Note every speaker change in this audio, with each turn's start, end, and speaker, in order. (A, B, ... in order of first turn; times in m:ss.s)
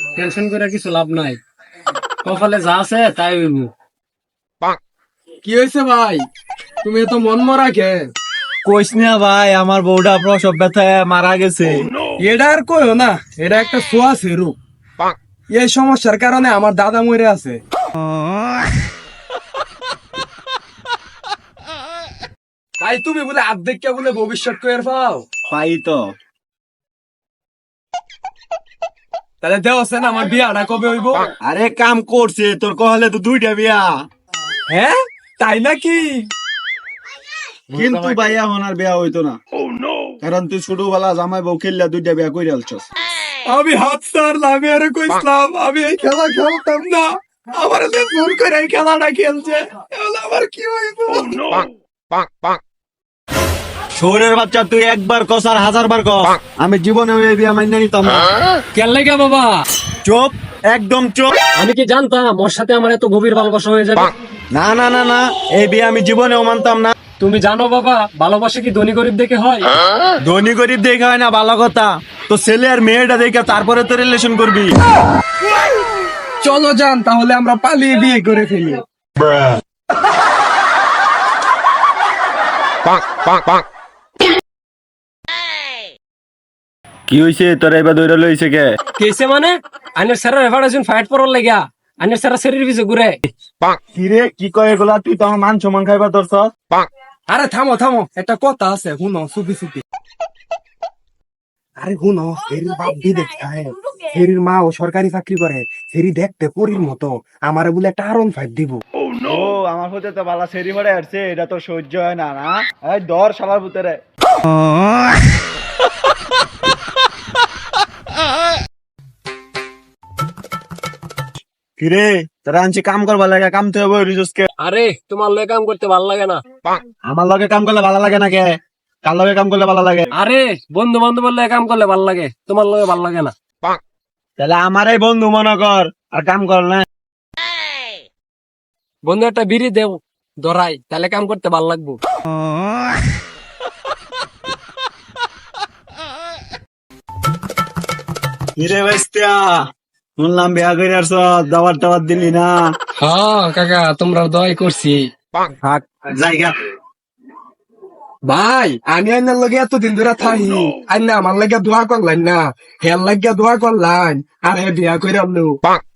0:00.2-0:01.4 A
0:02.2-0:03.7 A
0:05.4-0:06.3 B
0:06.8-0:08.1 B
0:08.6-0:11.9 C
0:12.2-0:14.6 B
0:15.5-0:17.6 B
0:22.8-0:25.2 B
0:25.5-0:26.0 C
0:29.4-0:31.3 B
0:31.4-0:33.9 C
0:34.7-0:36.3 B
0:37.7-0:39.4 C
0:37.7-0:38.3 A
0:40.2-0:42.8 C
0:43.4-0:51.6 B
0:54.0-0:58.3 C
0:58.7-0:59.6 A
1:00.0-1:01.4 C
1:01.6-1:04.1 A
1:04.5-1:06.9 C
1:07.2-1:09.7 A
1:10.2-1:14.7 C
1:16.4-1:18.8 B
1:19.2-1:19.6 C
1:27.1-1:28.7 C
1:29.0-1:33.2 A
1:33.9-1:36.4 C
1:37.3-1:39.8 B
1:41.8-1:48.8 B
1:49.2-1:54.0 C
2:01.8-2:04.5 C
2:04.6-2:06.4 A
2:07.1-2:08.5 C
2:09.1-2:10.1 C
2:10.1-2:13.3 A
2:14.4-2:16.8 C
2:19.0-2:22.0 A
2:28.6-2:29.6 C
2:30.2-2:32.6 C
2:33.0-2:35.1 A
2:35.6-2:36.5 C
2:38.2-2:45.6 B